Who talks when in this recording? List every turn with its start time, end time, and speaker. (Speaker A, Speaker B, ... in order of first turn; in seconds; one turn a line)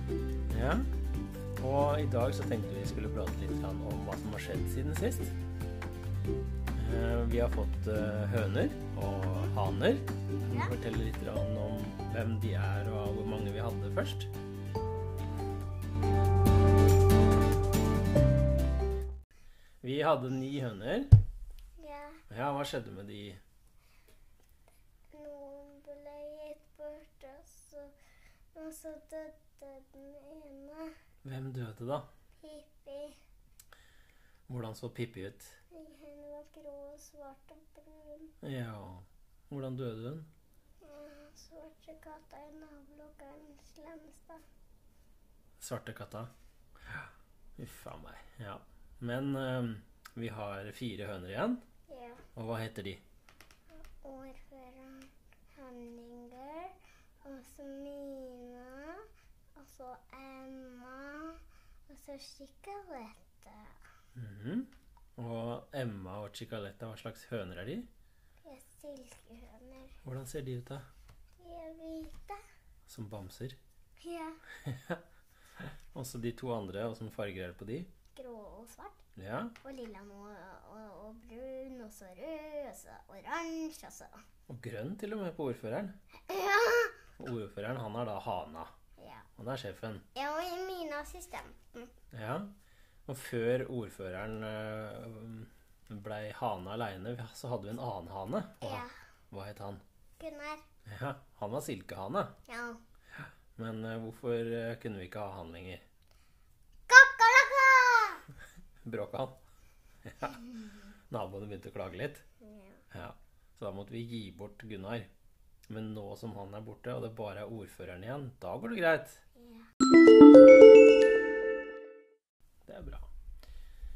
Speaker A: 0.5-0.9
Speaker A: 1.6-5.3
Speaker A: 6.7-14.3
Speaker B: 10.4-10.8
Speaker A: 19.8-21.1
Speaker B: 21.8-22.2
Speaker A: 22.3-23.4
Speaker B: 25.1-27.9
Speaker B: 28.5-30.9
Speaker A: 31.2-32.1
Speaker B: 32.4-33.2
Speaker A: 34.5-35.6
Speaker B: 35.7-38.3
Speaker A: 38.4-40.3
Speaker B: 40.8-44.4
Speaker A: 45.6-46.3
Speaker A: 46.9-51.6
Speaker B: 51.9-52.2
Speaker A: 52.4-53.0
Speaker B: 53.7-59.0
Speaker B: 59.5-63.8
Speaker A: 64.1-67.9
Speaker B: 68.4-70.0
Speaker A: 70.0-70.9
Speaker B: 71.4-72.4
Speaker A: 72.9-73.6
Speaker B: 74.0-74.4
Speaker A: 74.6-75.0
Speaker A: 75.6-77.9
Speaker B: 78.1-79.0
Speaker A: 79.2-79.5
Speaker B: 79.6-84.1
Speaker A: 84.5-85.9
Speaker B: 86.3-87.0
Speaker A: 87.2-88.7
Speaker B: 89.0-89.3
Speaker A: 89.4-90.0
Speaker B: 90.1-91.9
Speaker A: 92.1-92.5
Speaker A: 93.1-99.8
Speaker B: 98.6-98.9
Speaker B: 100.2-100.6
Speaker A: 100.9-102.3
Speaker B: 102.5-102.8
Speaker A: 103.5-105.8
Speaker B: 106.9-108.2
Speaker A: 108.8-109.4
Speaker A: 110.0-110.4
Speaker A: 111.1-112.2
Speaker B: 112.4-112.8
Speaker A: 112.9-115.1
Speaker A: 115.7-119.2
Speaker B: 119.3-119.7
Speaker A: 122.7-123.1